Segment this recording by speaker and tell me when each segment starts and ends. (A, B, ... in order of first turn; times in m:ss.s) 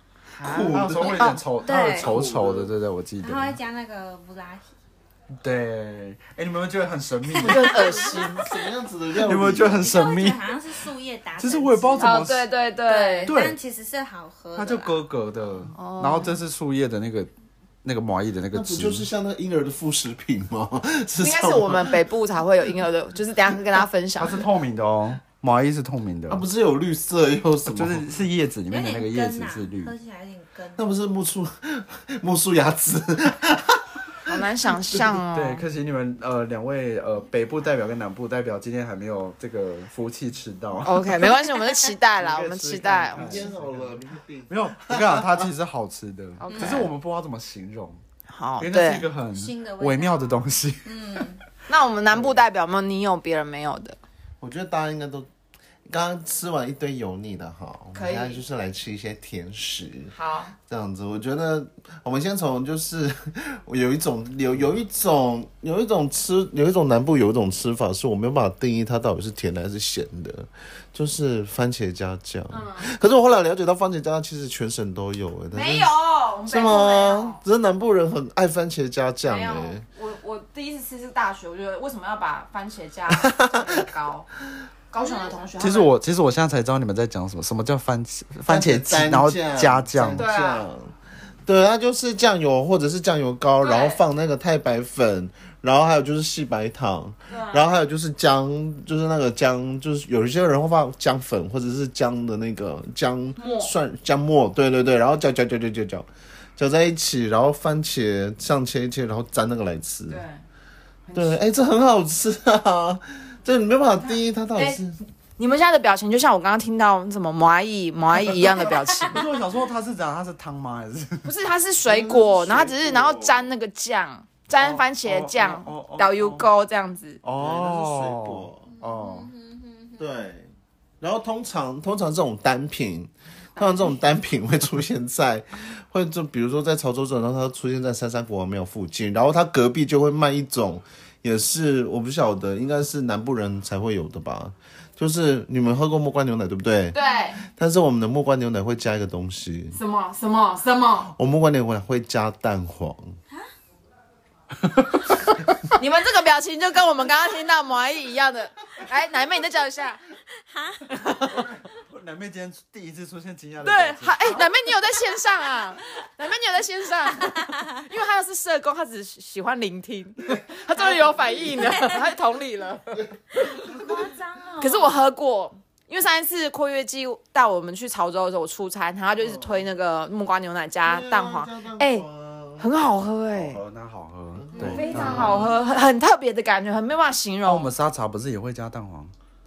0:00.4-0:01.4 A
0:00.4-0:02.7 B
0:00.5-0:03.6 C
0:01.6-0:02.1 D
0:03.2-0:04.7 D
0:05.4-0:07.8 C
0:07.3-0:08.6 A
0:07.4-0:10.0 B
0:09.2-0:10.6 C
0:09.8-0:12.2 D
0:11.4-0:12.5 C
0:12.0-0:13.4 A
0:12.8-0:15.0 D
0:13.2-0:13.6 C
0:14.6-0:17.3 C
0:15.7-0:16.4 A
0:17.8-0:19.1 C
0:18.5-0:22.0 B
0:21.2-0:24.4 A
0:24.2-0:26.4 C
0:26.3-0:28.1 B
0:27.6-0:29.9 C
0:28.7-0:30.8 D
0:30.8-0:35.2 B
0:34.3-0:35.6 A
0:35.3-0:41.2 C
0:40.8-0:43.5 A
0:42.2-0:48.0 C
0:43.2-0:45.5 B
0:46.4-0:46.9 A
0:46.5-0:46.8 D
0:48.3-0:49.1 A
0:48.6-0:51.4 C
0:49.3-0:51.4 D
0:51.7-0:54.0 A
0:52.1-0:52.4 B
0:54.4-0:55.3 B
0:55.9-1:15.9 B
0:57.9-0:58.4 A
1:00.1-1:00.5 A
1:12.5-1:12.9 A
1:15.5-1:17.4 A
1:16.5-1:19.8 B
1:19.3-1:24.3 A
1:23.1-1:23.8 B
1:24.9-1:25.9 A
1:25.6-1:30.3 C
1:28.5-1:30.9 B
1:30.2-1:30.7 A
1:31.4-1:50.2 B
1:33.6-1:34.0 A
1:37.3-1:37.7 A
1:43.4-1:43.7 A
1:50.1-1:50.4 A
1:51.1-1:51.5 A
1:51.2-1:55.0 B
1:55.4-1:59.2 A
1:59.1-2:01.3 C
2:01.2-2:07.2 A
2:01.8-2:03.5 B
2:04.6-2:06.5 C
2:07.2-2:09.3 C
2:07.4-2:08.7 B
2:08.7-2:10.0 D
2:10.0-2:10.5 B
2:11.0-2:29.8 B
2:26.9-2:27.4 A
2:29.7-2:31.1 A
2:31.1-2:33.0 B
2:35.7-2:40.0 A
2:40.4-2:40.8 D
2:40.9-2:41.4 A
2:41.1-2:44.4 C
2:43.6-2:53.8 A
2:50.2-2:51.8 B
2:53.4-2:55.0 D
2:54.6-3:02.1 A
2:59.2-2:59.6 B
3:00.8-3:02.7 B
3:02.6-3:03.6 A
3:03.3-3:05.5 C
3:04.4-3:05.6 B
3:04.6-3:07.7 A
3:07.4-3:09.1 C